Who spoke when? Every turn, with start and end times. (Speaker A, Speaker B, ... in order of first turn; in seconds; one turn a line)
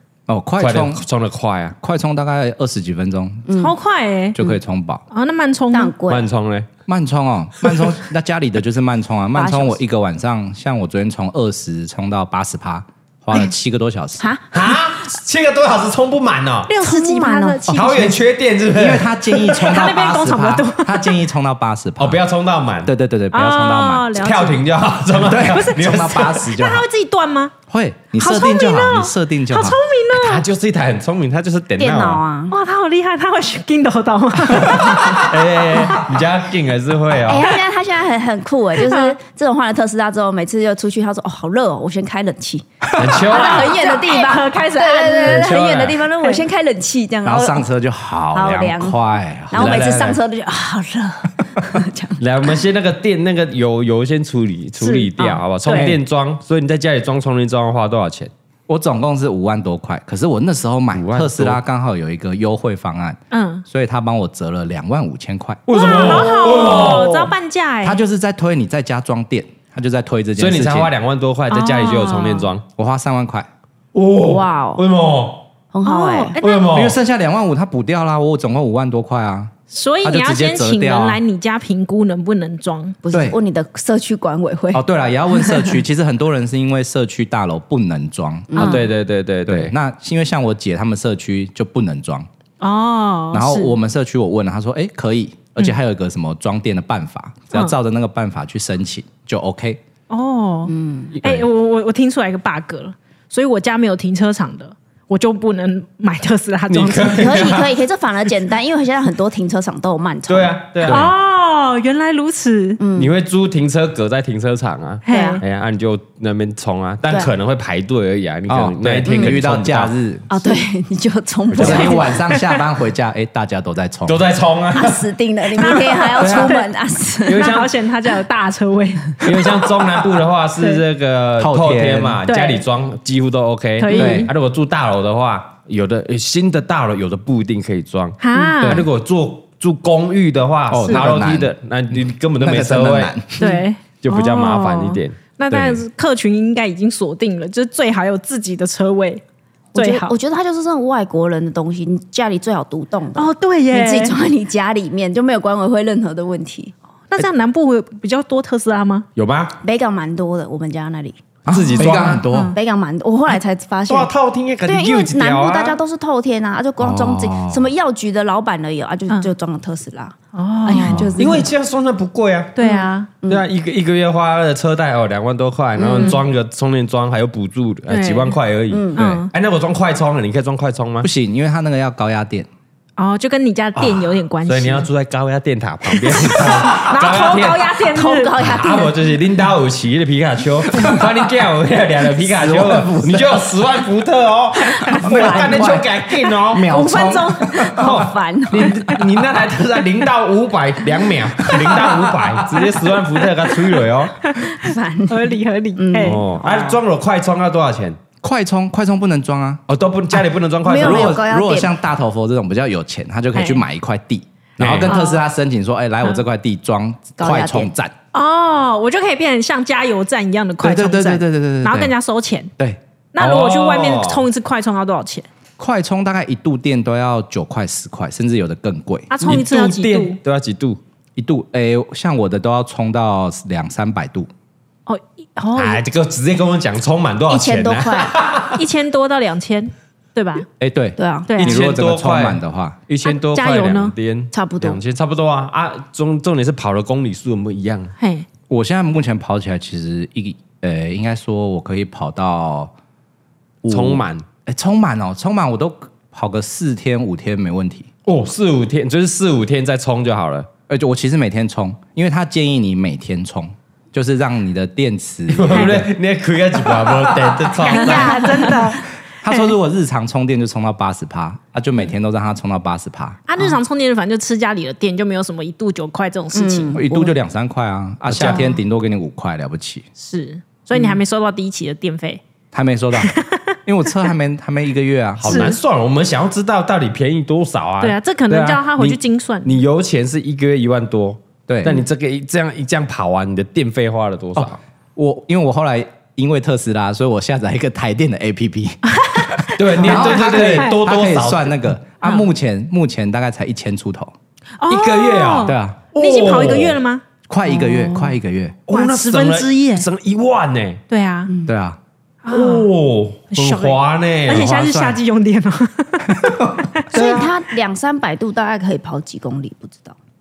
Speaker A: 0.3-1.0
Speaker B: 0.6-1.7
Speaker A: 1.8-3.5
Speaker C: 3.5-3.7
Speaker D: 3.5-4.4
Speaker A: 4.3-5.0
Speaker D: 5.1-5.9
Speaker C: 5.7-6.3
Speaker B: 6.1-6.7
Speaker A: 6.9-14.3
Speaker C: 9.3-9.8
Speaker C: 14.2-14.6
Speaker B: 14.5-16.7
Speaker D: 16.7-18.1
Speaker C: 16.8-17.6
Speaker A: 17.7-18.2
Speaker B: 17.7-19.2
Speaker A: 18.7-22.2
Speaker D: 19.4-21.2
Speaker B: 22.0-22.9
Speaker A: 22.8-24.1
Speaker D: 23.3-24.7
Speaker B: 24.1-26.5
Speaker A: 25.2-26.9
Speaker D: 25.4-27.5
Speaker A: 27.7-29.8
Speaker D: 28.1-30.4
Speaker B: 30.1-32.2
Speaker C: 31.8-32.5
Speaker D: 32.5-35.2
Speaker B: 34.7-37.5
Speaker C: 37.3-47.6
Speaker D: 38.8-39.1
Speaker B: 43.0-43.8
Speaker D: 43.3-46.4
Speaker A: 45.3-45.9
Speaker B: 45.4-46.0
Speaker A: 47.2-49.9
Speaker C: 48.3-49.0
Speaker C: 49.5-52.2
Speaker B: 49.5-50.2
Speaker B: 52.2-58.3
Speaker D: 54.8-55.9
Speaker A: 55.7-56.0
Speaker A: 58.7-66.3
Speaker B: 60.9-61.6
Speaker D: 63.3-63.6
Speaker B: 65.7-67.3
Speaker D: 65.7-68.0
Speaker A: 67.8-70.9
Speaker B: 70.4-72.6
Speaker D: 71.5-72.5
Speaker A: 72.8-73.5
Speaker B: 73.9-75.5
Speaker C: 74.2-74.8
Speaker C: 75.7-76.4
Speaker D: 75.8-76.7
Speaker B: 76.4-77.0
Speaker A: 76.7-79.5
Speaker D: 79.7-83.0
Speaker A: 80.0-81.2
Speaker C: 83.0-85.8
Speaker A: 83.1-83.4
Speaker A: 84.7-88.8
Speaker C: 88.5-88.8
Speaker B: 88.5-89.7
Speaker A: 89.5-92.3
Speaker D: 92.6-93.7
Speaker A: 93.3-99.8
Speaker D: 100.1-107.6
Speaker C: 100.7-101.1
Speaker B: 106.7-107.7
Speaker C: 106.9-110.6
Speaker B: 110.3-111.1
Speaker A: 110.8-111.1
Speaker D: 110.9-112.8
Speaker C: 112.8-113.1
Speaker B: 112.9-119.9
Speaker D: 115.0-115.4
Speaker C: 115.1-115.4
Speaker C: 117.1-117.3
Speaker A: 118.5-120.5
Speaker C: 119.0-119.4
Speaker C: 120.3-122.6
Speaker B: 121.5-122.0
Speaker A: 121.5-124.2
Speaker B: 124.0-125.0
Speaker C: 124.7-127.6
Speaker D: 125.6-126.7
Speaker B: 126.2-126.6
Speaker B: 127.2-127.7
Speaker D: 127.3-129.2
Speaker B: 129.2-143.1
Speaker A: 131.4-132.2
Speaker D: 132.3-132.6
Speaker D: 133.8-134.3
Speaker A: 133.9-134.3
Speaker D: 138.2-138.9
Speaker A: 138.6-138.9
Speaker A: 140.7-141.5
Speaker A: 142.4-143.5
Speaker D: 143.4-149.2
Speaker B: 144.0-145.2
Speaker A: 145.5-145.8
Speaker D: 149.7-150.1
Speaker C: 149.7-156.7
Speaker D: 153.1-154.2
Speaker D: 157.1-159.1
Speaker B: 159.2-159.6
Speaker C: 159.6-161.2
Speaker A: 161.4-162.5
Speaker B: 161.5-162.2
Speaker D: 162.3-162.5
Speaker C: 162.5-164.1
Speaker B: 163.9-165.8
Speaker C: 164.7-171.5
Speaker A: 166.8-167.7
Speaker D: 170.3-171.1
Speaker A: 170.8-171.4
Speaker B: 171.2-172.5
Speaker D: 172.6-173.1
Speaker C: 172.6-173.4
Speaker B: 173.3-181.1
Speaker C: 175.8-176.2
Speaker D: 177.9-178.3
Speaker C: 178.7-179.1
Speaker D: 178.9-179.3
Speaker A: 181.0-182.5
Speaker D: 183.0-184.9
Speaker A: 183.8-184.1
Speaker B: 184.4-187.7
Speaker D: 186.1-188.4
Speaker C: 187.9-189.0
Speaker B: 188.4-196.7
Speaker A: 190.7-191.0
Speaker A: 192.2-193.4
Speaker C: 194.8-195.7
Speaker A: 195.0-198.0
Speaker D: 196.6-197.7
Speaker C: 197.5-198.8
Speaker B: 197.8-204.1
Speaker A: 201.7-202.7
Speaker D: 204.3-206.2
Speaker C: 204.5-206.8
Speaker B: 206.0-208.0
Speaker A: 208.2-217.9
Speaker B: 209.7-211.2
Speaker C: 210.6-211.7
Speaker D: 213.3-213.6
Speaker B: 214.6-214.9
Speaker D: 214.8-215.2
Speaker C: 217.2-217.7
Speaker D: 218.1-222.5
Speaker A: 220.6-221.9
Speaker D: 223.1-225.3
Speaker B: 223.2-224.2
Speaker A: 225.6-229.1
Speaker D: 229.1-230.2
Speaker B: 229.2-230.8
Speaker A: 231.2-234.3
Speaker D: 234.8-235.8
Speaker B: 235.5-238.6
Speaker C: 237.3-238.1
Speaker D: 238.5-240.4
Speaker A: 240.6-242.8
Speaker C: 241.0-241.3
Speaker D: 241.3-241.6
Speaker B: 241.4-247.9
Speaker D: 243.0-243.9
Speaker C: 244.3-244.8
Speaker D: 248.0-248.2
Speaker A: 248.5-252.7
Speaker A: 253.6-257.9
Speaker B: 253.7-254.2
Speaker B: 258.1-260.5
Speaker A: 260.7-265.9
Speaker B: 265.3-268.5
Speaker D: 265.5-265.8
Speaker A: 266.6-267.9
Speaker D: 267.6-269.5
Speaker C: 267.9-268.7
Speaker A: 269.2-273.2
Speaker D: 273.3-276.8
Speaker C: 276.3-277.1
Speaker A: 276.7-279.9
Speaker B: 278.1-278.4
Speaker D: 280.0-282.2
Speaker C: 280.7-281.0
Speaker A: 282.5-283.1
Speaker D: 282.9-283.4
Speaker A: 283.6-285.5
Speaker B: 285.2-294.6
Speaker D: 285.2-285.6
Speaker D: 287.8-289.6
Speaker A: 291.5-291.8
Speaker A: 294.4-304.1
Speaker D: 298.9-300.8
Speaker B: 299.5-301.6
Speaker D: 302.0-302.3
Speaker D: 304.6-307.0
Speaker B: 304.7-306.8
Speaker A: 305.4-305.8
Speaker A: 307.3-308.6
Speaker C: 307.4-308.1
Speaker B: 308.7-310.8
Speaker D: 308.7-309.9
Speaker D: 310.9-311.3
Speaker C: 311.3-311.5
Speaker A: 311.4-311.8
Speaker D: 312.2-312.7
Speaker B: 312.3-314.5
Speaker D: 313.3-317.2
Speaker A: 314.3-315.0
Speaker A: 316.1-316.7
Speaker C: 316.9-319.9
Speaker B: 316.9-317.3